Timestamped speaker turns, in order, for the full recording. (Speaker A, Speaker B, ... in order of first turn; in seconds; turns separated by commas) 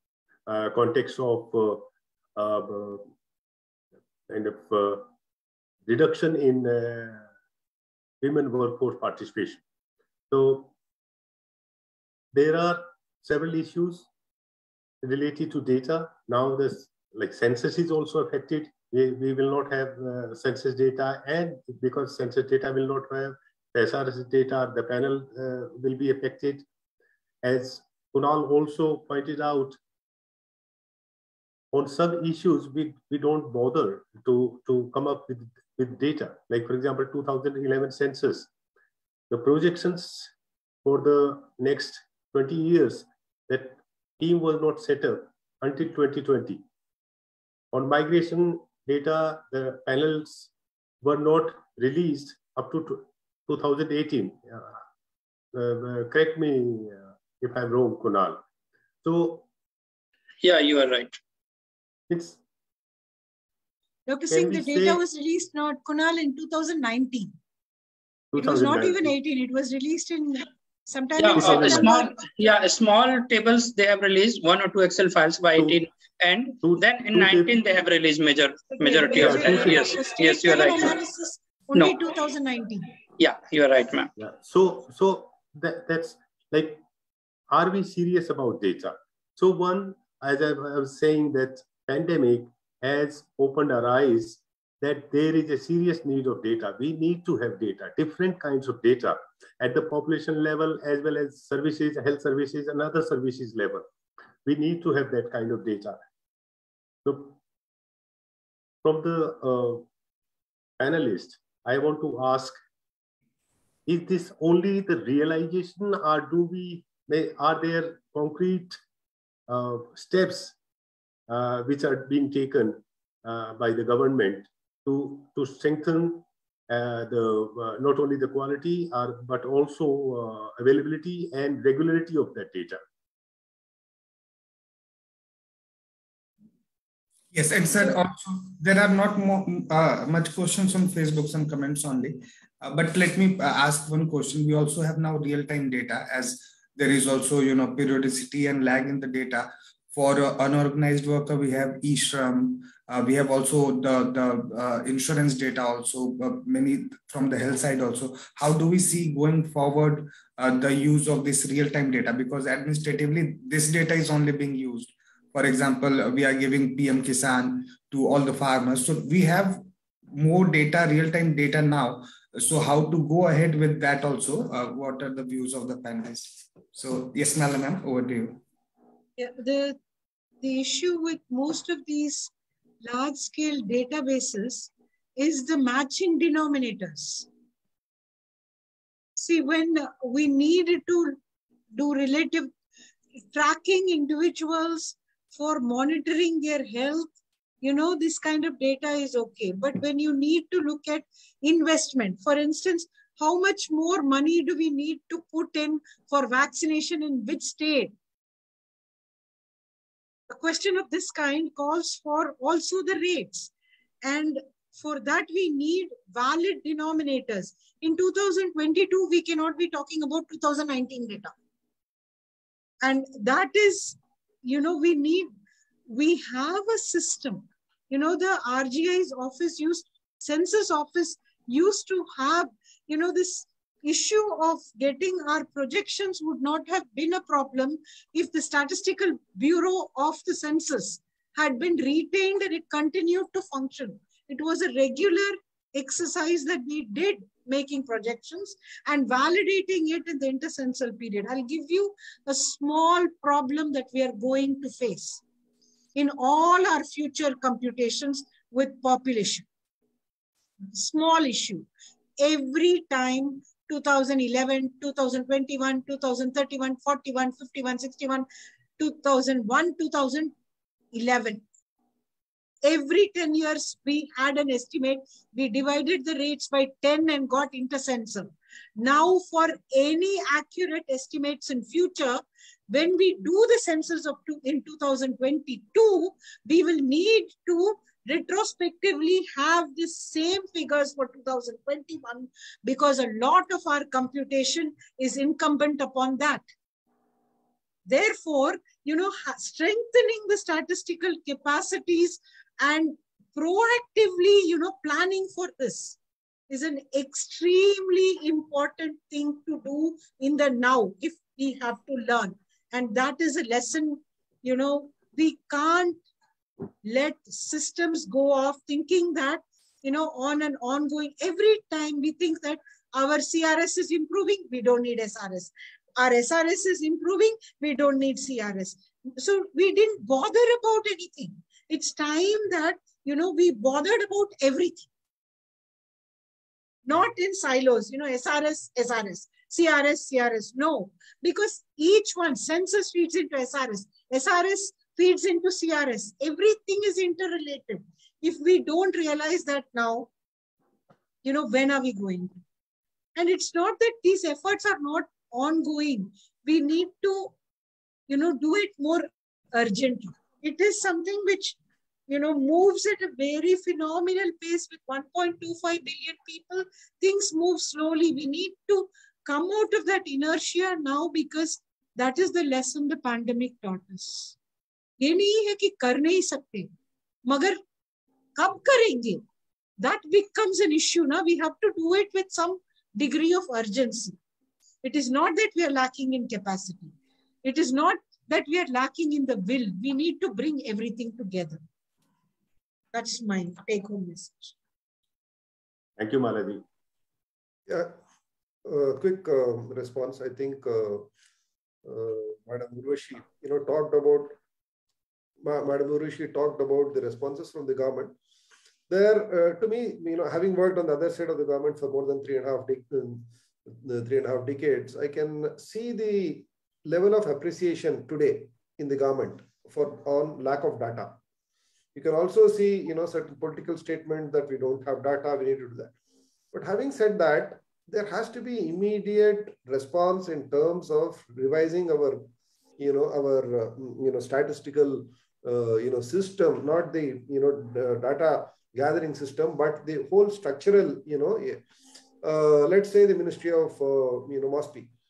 Speaker A: 0.5-3.1, Speaker A: 4.3-5.1, Speaker A: 5.9-7.3, Speaker A: 8.2-9.6, Speaker A: 10.3-10.7, Speaker A: 12.3-14.1, Speaker A: 15.0-26.6, Speaker A: 27.4-29.8, Speaker A: 31.7-38.5, Speaker A: 39.3-40.3, Speaker A: 40.9-46.6, Speaker A: 47.7-50.5, Speaker A: 51.0-54.8, Speaker A: 55.5-58.4, Speaker A: 59.0-59.5, Speaker B: 60.4-61.2, Speaker A: 62.1-62.4, Speaker C: 64.1-67.3, Speaker A: 64.3-65.0, Speaker A: 68.3-69.1, Speaker C: 68.4-72.1, Speaker B: 71.2-81.0, Speaker A: 71.3-72.0, Speaker A: 75.5-75.8, Speaker A: 76.6-77.6, Speaker C: 78.7-82.9, Speaker A: 79.1-79.9, Speaker B: 83.2-84.1, Speaker A: 84.2-86.8, Speaker A: 87.5-103.9, Speaker A: 104.5-106.0, Speaker A: 107.0-107.4, Speaker A: 108.8-109.9, Speaker A: 110.8-112.6, Speaker A: 113.9-118.8, Speaker A: 119.5-120.6, Speaker A: 121.3-132.8, Speaker D: 137.3-178.4, Speaker C: 179.2-179.8, Speaker C: 180.4-182.3, Speaker C: 182.8-187.3, Speaker C: 189.2-191.2, Speaker C: 191.7-192.5, Speaker C: 193.2-207.9, Speaker C: 210.3-213.5, Speaker C: 214.0-221.3, Speaker C: 222.8-225.3, Speaker C: 225.9-255.2, Speaker C: 255.9-259.4, Speaker C: 260.7-261.7, Speaker C: 262.2-268.3, Speaker C: 268.8-270.3, Speaker C: 270.9-271.4, Speaker C: 272.6-296.5, Speaker C: 297.9-306.0, Speaker C: 306.5-316.0, Speaker C: 316.8-334.9, Speaker C: 336.9-350.1, Speaker C: 351.2-352.3, Speaker C: 353.1-357.4, Speaker C: 358.1-361.6, Speaker C: 362.1-374.4, Speaker C: 375.0-376.7, Speaker C: 377.3-377.6, Speaker C: 378.4-379.2, Speaker C: 379.8-384.2, Speaker C: 384.8-391.6, Speaker C: 392.9-394.6, Speaker A: 396.0-396.6, Speaker E: 397.7-398.0, Speaker E: 398.6-401.1, Speaker E: 401.9-404.4, Speaker E: 405.4-408.1, Speaker E: 408.9-421.2, Speaker E: 421.9-425.9, Speaker E: 426.5-441.6, Speaker E: 442.2-444.9